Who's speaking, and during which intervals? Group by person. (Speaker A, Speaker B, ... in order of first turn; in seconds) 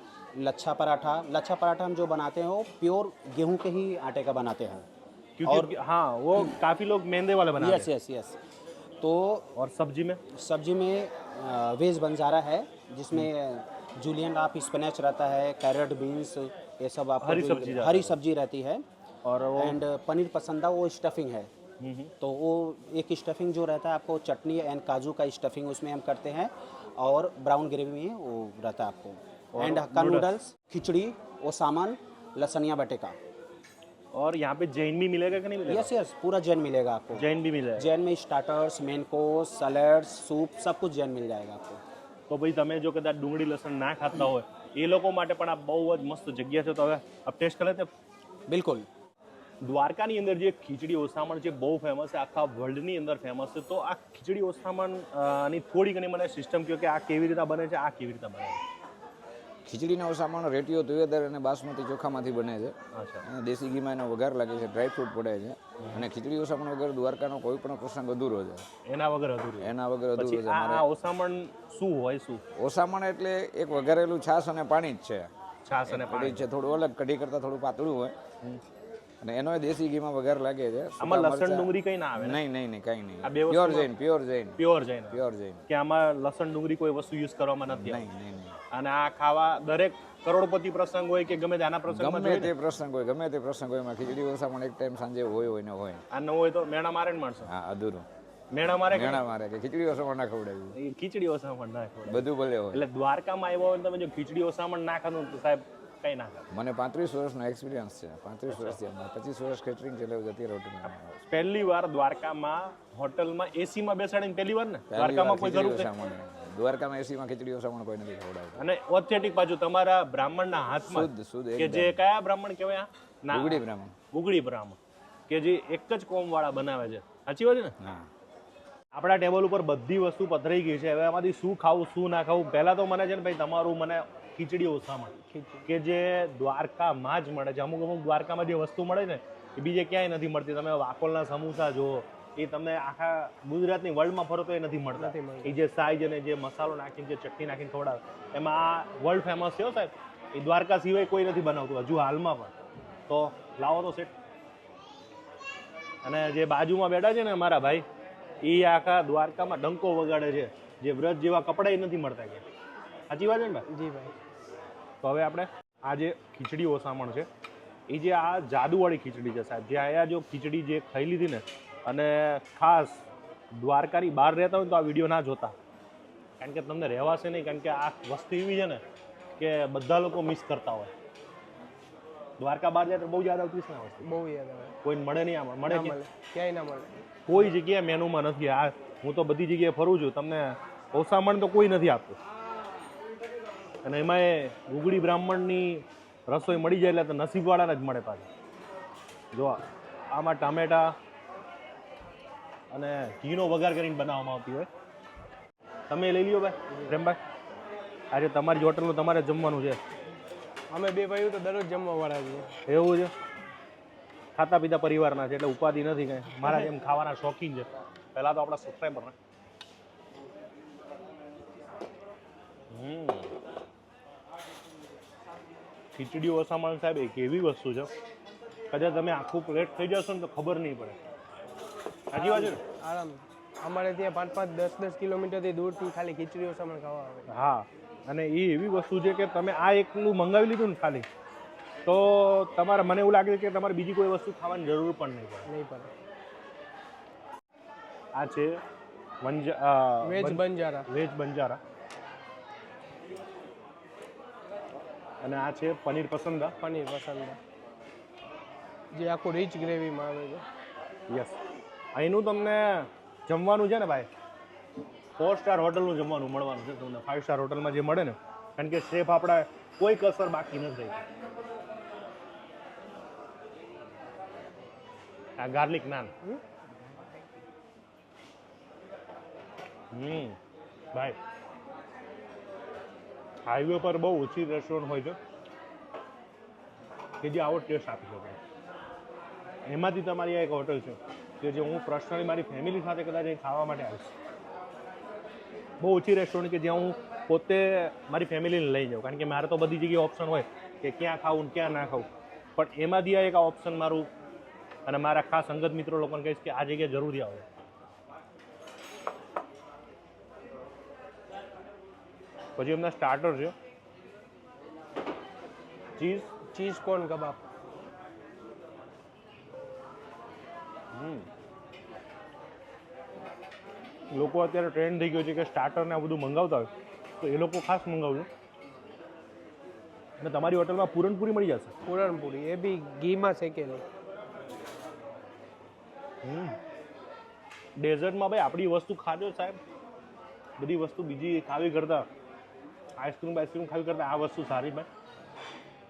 Speaker A: 0.3-4.8, 5.5-5.7, 7.5-8.4, 9.0-9.5, 10.3-18.8, 19.6-21.5, 22.2-33.2, 35.7-41.8, 48.5-48.9
Speaker B: 5.4-7.9, 9.6-10.2, 17.2-18.1, 19.2-19.8, 21.8-22.1, 29.5-30.3, 34.1-35.9, 37.1-37.9, 42.3-47.9, 49.6-58.6, 62.9-63.2, 65.8-66.0, 68.8-72.4, 75.7-76.5, 81.0-82.4, 83.2-83.9, 84.6-88.1, 88.7-92.5, 96.1-97.5, 98.5-99.2, 100.7-106.5, 108.5-108.8, 110.9-115.9, 118.5-127.7, 128.9-152.5, 153.1-154.1, 156.0-157.8, 158.4-162.4, 163.1-163.6, 165.0-167.3, 167.9-175.5, 176.4-178.8, 179.4-180.9, 182.4-184.1, 184.8-185.9, 187.3-192.2, 193.8-198.3, 199.3-200.9, 202.7-204.7, 205.9-207.2, 208.1-209.8, 212.7-213.1, 214.4-219.1, 222.7-223.3, 225.9-227.9, 228.7-231.0, 232.1-232.6, 237.3-241.1, 241.8-245.5, 248.2-248.6, 249.2-251.6, 255.2-256.5, 261.1-261.4, 261.9-264.1, 265.2-271.0, 275.4-276.1, 279.9-280.4, 283.4-285.2, 287.2-288.4, 289.6-294.1, 295.8-304.1, 304.9-307.4, 312.6-313.5, 316.0-316.3, 320.9-321.3, 324.1-326.7, 327.2-328.3, 330.2-331.7, 336.2-336.6, 337.8-339.6, 340.6-342.1, 343.0-344.9
Speaker C: 59.6-68.7, 69.6-70.9, 72.5-75.3, 75.9-78.2, 79.2-85.7, 87.7-88.6, 91.9-96.0, 97.4-98.1, 98.8-100.8, 102.1-102.9, 106.5-111.2, 114.9-118.7, 120.9-122.0, 123.3-123.9, 127.8-128.1
Speaker D: 135.3-135.7, 145.0-145.6, 163.7-164.2, 184.0-184.8, 185.6-187.0, 206.7-207.0, 210.7-212.5, 232.1-237.3, 245.4-245.9, 250.0-250.9, 256.6-257.4, 258.9-260.4, 316.5-317.4, 331.9-333.8